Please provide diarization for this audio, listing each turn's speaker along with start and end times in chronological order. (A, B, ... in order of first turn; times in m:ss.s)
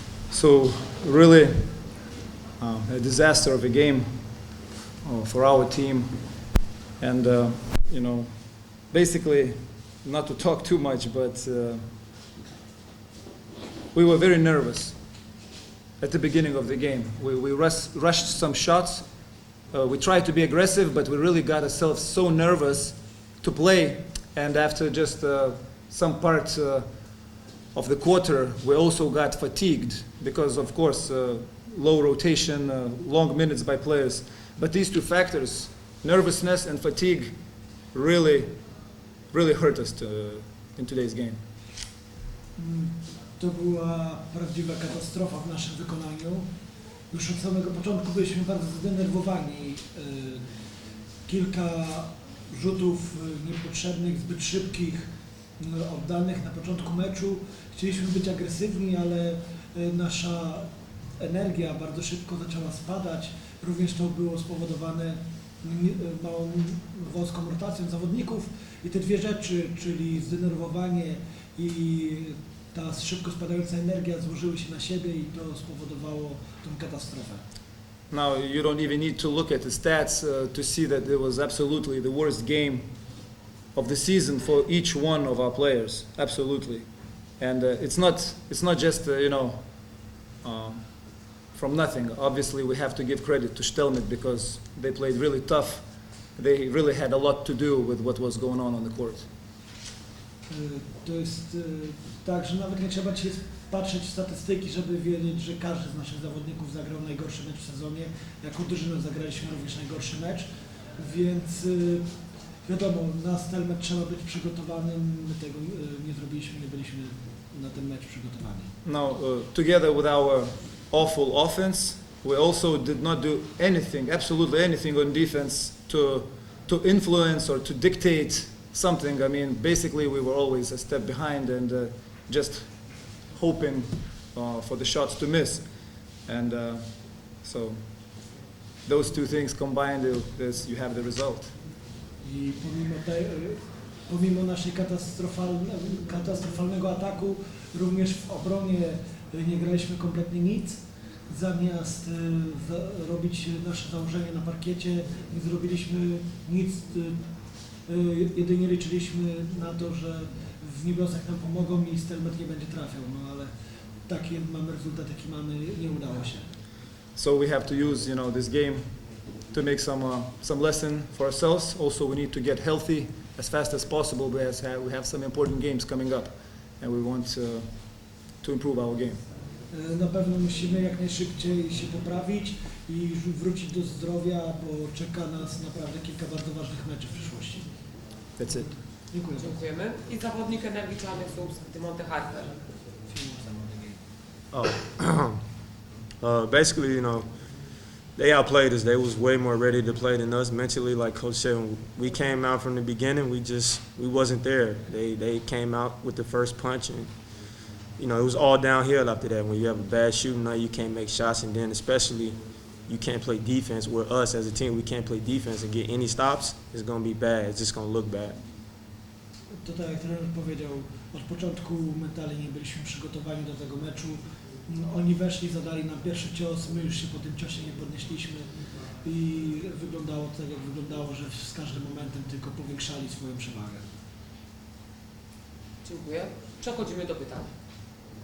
0:00.3-0:02.0 A
0:02.6-0:12.1 A
0:13.9-0:15.3 A
0:16.0-0:41.6 A
0:42.6-0:46.5 B
0:47.1-0:50.5 B
0:51.2-1:17.4 B
1:18.1-1:39.3 A
1:40.5-1:52.1 B
1:52.6-1:58.7 B
1:58.8-2:21.6 A
2:22.2-2:43.5 B
2:44.0-2:46.6 B
2:47.1-2:59.2 A
2:59.7-3:08.0 B
3:08.4-3:08.8 A
3:08.5-3:09.6 B
3:09.4-3:12.6 C
3:13.0-3:14.0 B
3:14.5-3:15.4 D
3:16.2-3:38.4 D
3:39.5-3:53.9 B
3:55.8-3:57.5 C